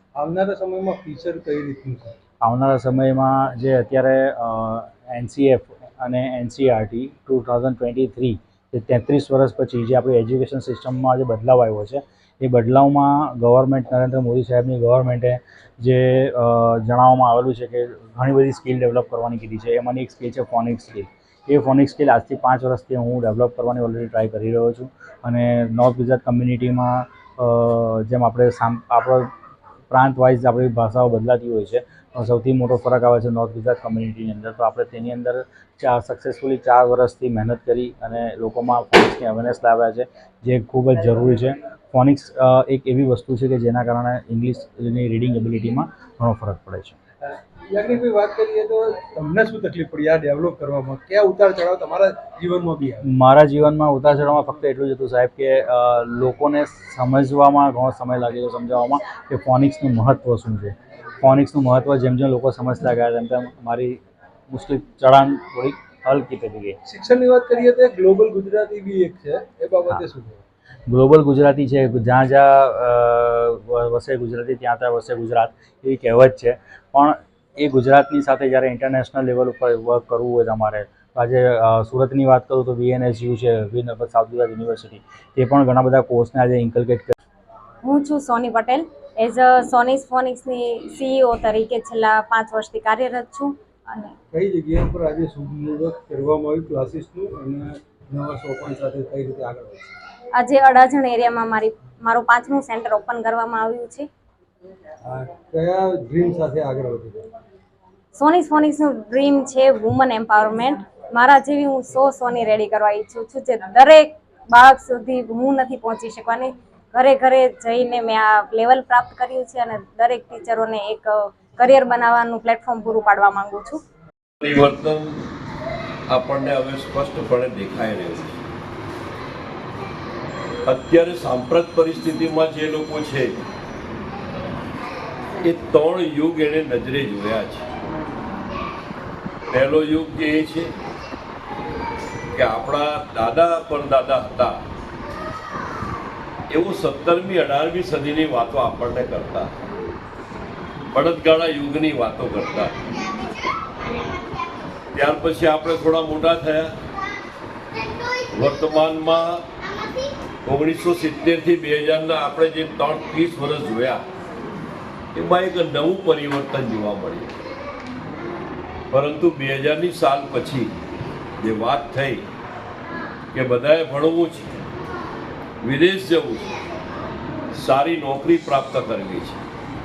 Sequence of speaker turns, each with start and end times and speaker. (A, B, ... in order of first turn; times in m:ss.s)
0:00.2-0:02.1 A
0:02.4-0:29.3 B
0:29.9-0:47.0 B
0:47.7-0:53.1 A
0:53.1-1:04.0 B
1:04.5-1:06.8 B
1:06.9-1:10.4 A
1:10.9-1:27.1 B
1:27.8-1:34.1 C
1:34.3-1:40.0 A
1:40.4-1:44.1 C
1:45.0-1:47.2 A
1:48.2-2:03.8 C
2:04.4-2:05.2 D
2:06.1-2:08.4 D
2:10.7-2:13.4 D
2:15.4-2:17.7 D
2:19.5-2:20.7 D
2:22.4-2:24.6 D
2:26.5-2:29.5 D
2:30.9-2:32.8 D
2:34.9-2:36.7 D
2:38.3-2:39.5 D
2:40.4-2:44.0 D
2:45.1-2:47.3 D
2:48.9-2:50.7 D
2:51.4-2:52.2 D
2:53.3-2:54.5 D
2:55.6-2:56.5 D
2:57.5-2:59.4 D